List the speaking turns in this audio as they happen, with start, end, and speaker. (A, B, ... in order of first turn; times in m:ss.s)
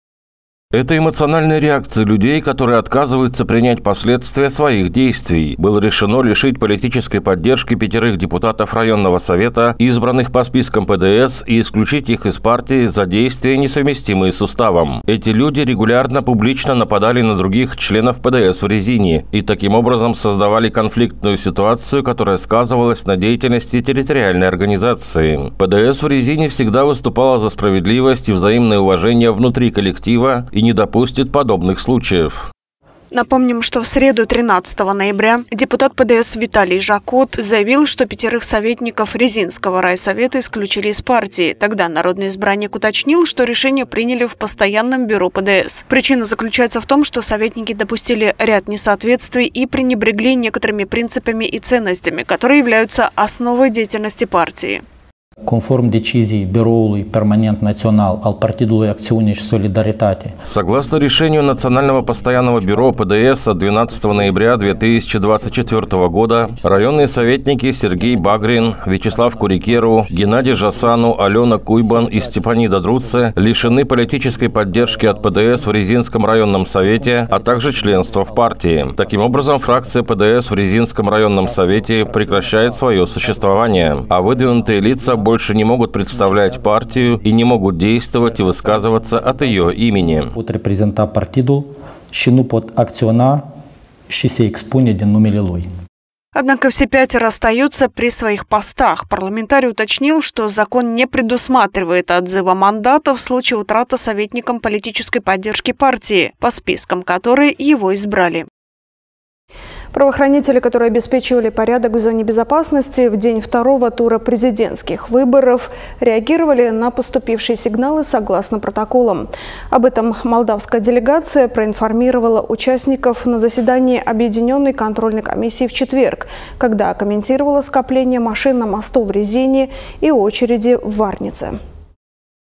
0:00.7-0:32.5 A
0:33.1-0:54.8 B
0:55.4-1:00.4 C
1:00.4-1:30.3 A
1:30.3-1:33.4 C
1:34.1-1:35.7 C
1:36.4-1:48.5 B
1:49.9-2:11.6 B